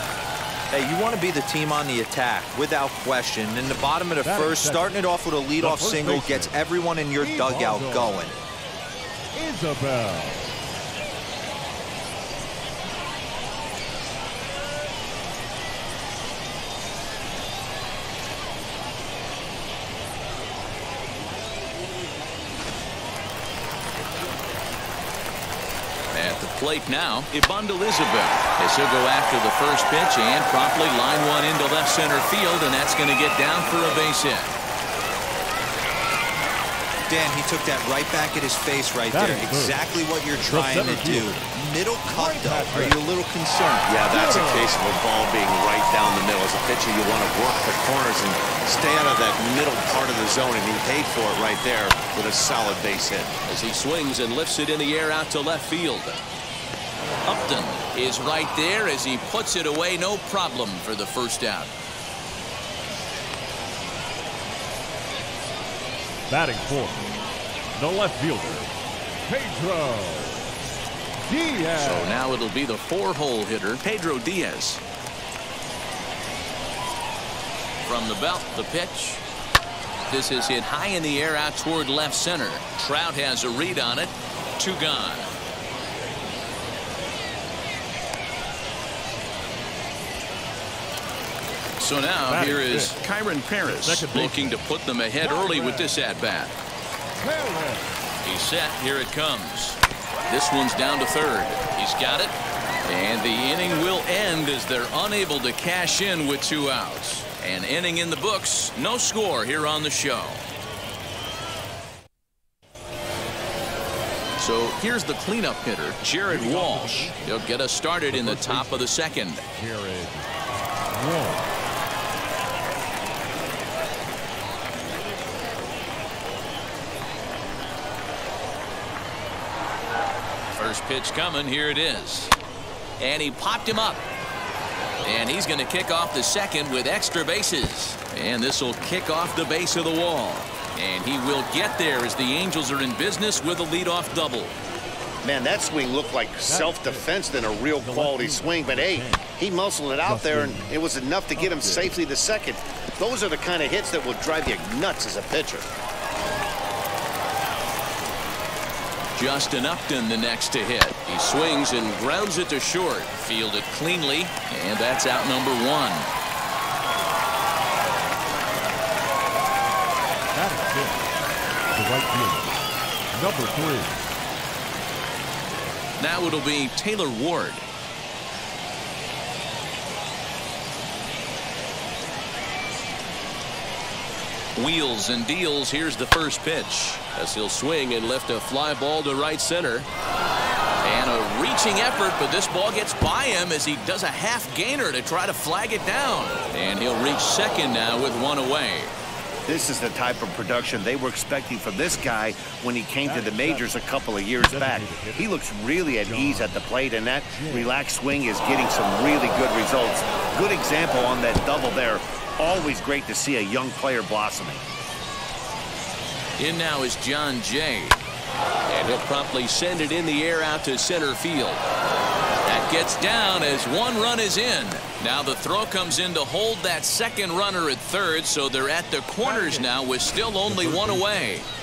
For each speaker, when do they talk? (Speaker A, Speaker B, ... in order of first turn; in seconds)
Speaker A: 0.7-8.3, 37.1-44.0
Speaker B: 4.2-4.9, 5.6-6.5, 7.2-8.2, 9.3-10.6, 39.1-39.8, 40.4-41.4, 42.0-43.0, 44.1-44.8, 66.3-67.1, 67.7-68.7, 69.2-70.5, 71.2-72.2, 92.3-93.0, 93.6-94.6, 95.2-96.0, 97.2-97.9, 116.2-117.4, 118.1-118.9, 119.5-120.3, 120.9-121.5, 146.4-147.1, 147.7-149.2, 150.0-150.8, 151.3-152.0, 170.3-171.0, 171.7-172.6, 173.1-174.0, 203.0-203.7, 204.4-205.3, 206.0-206.6, 207.2-207.8, 229.2-229.7, 230.4-231.3
Speaker C: 26.1-34.5, 53.5-56.2, 57.2-61.7, 71.8-74.8, 77.8-79.2, 80.1-85.3, 91.8-96.5, 98.2-110.4, 114.4-119.4, 130.5-132.3, 133.0-134.0, 135.0-144.5, 159.1-166.1, 176.0-177.6, 184.6-189.9, 190.8-198.9, 216.4-218.0, 218.7-221.6, 222.4-231.4
Speaker D: 43.8-53.3, 145.2-155.7, 199.5-214.6